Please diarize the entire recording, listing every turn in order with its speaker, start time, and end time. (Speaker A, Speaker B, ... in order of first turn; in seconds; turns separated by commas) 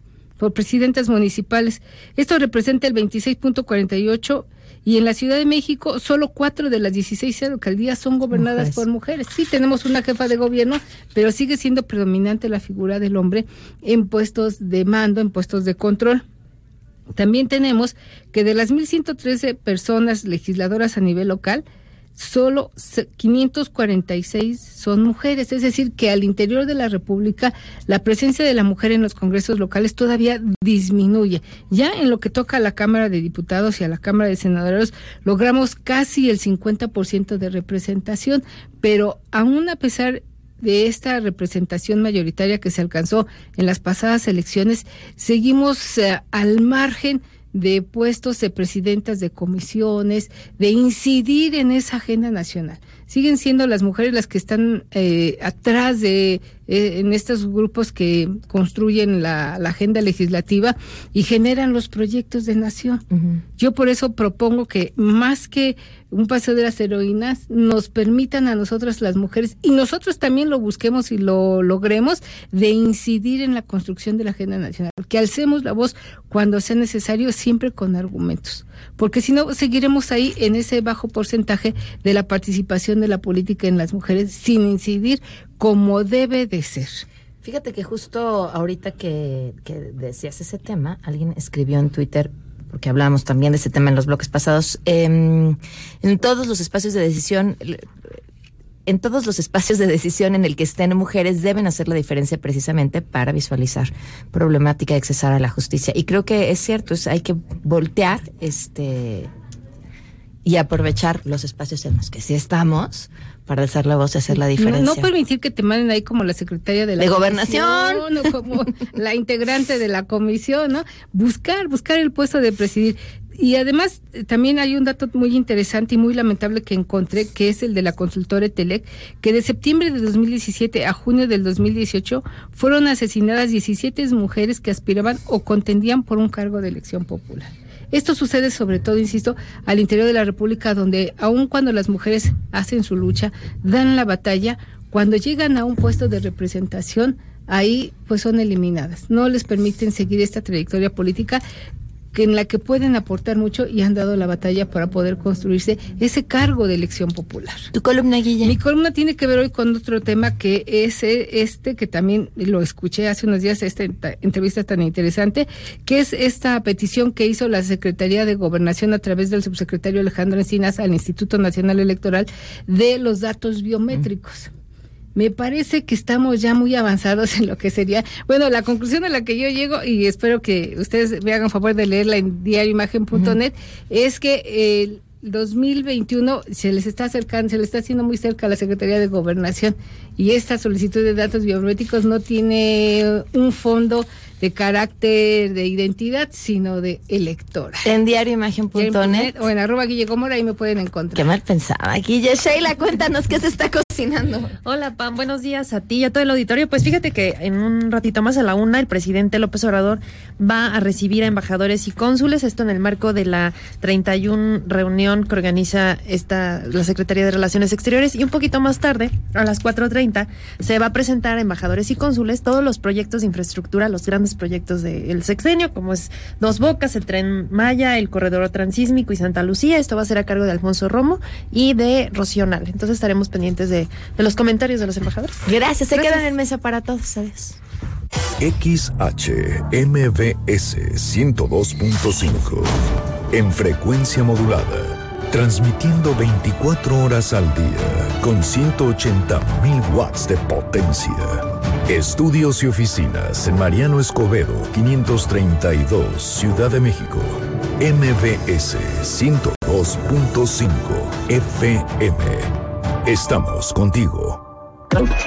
Speaker A: 0.4-16.2, Speaker B: 8.4-8.8, Speaker A: 17.1-21.6, Speaker A: 22.2-63.0, Speaker B: 63.1-63.4, Speaker A: 63.6-87.0, Speaker B: 87.4-97.9, Speaker B: 98.8-109.3, Speaker B: 110.4-115.1, Speaker A: 114.6-151.4, Speaker B: 117.0-118.1, Speaker A: 152.1-157.7, Speaker B: 157.7-158.6, Speaker A: 158.4-174.5, Speaker A: 175.2-197.8, Speaker B: 197.8-199.3, Speaker A: 198.7-201.2, Speaker B: 201.1-204.5, Speaker C: 204.6-236.3, Speaker B: 235.4-237.6, Speaker D: 238.4-242.7, Speaker D: 243.3-262.5, Speaker D: 263.0-264.4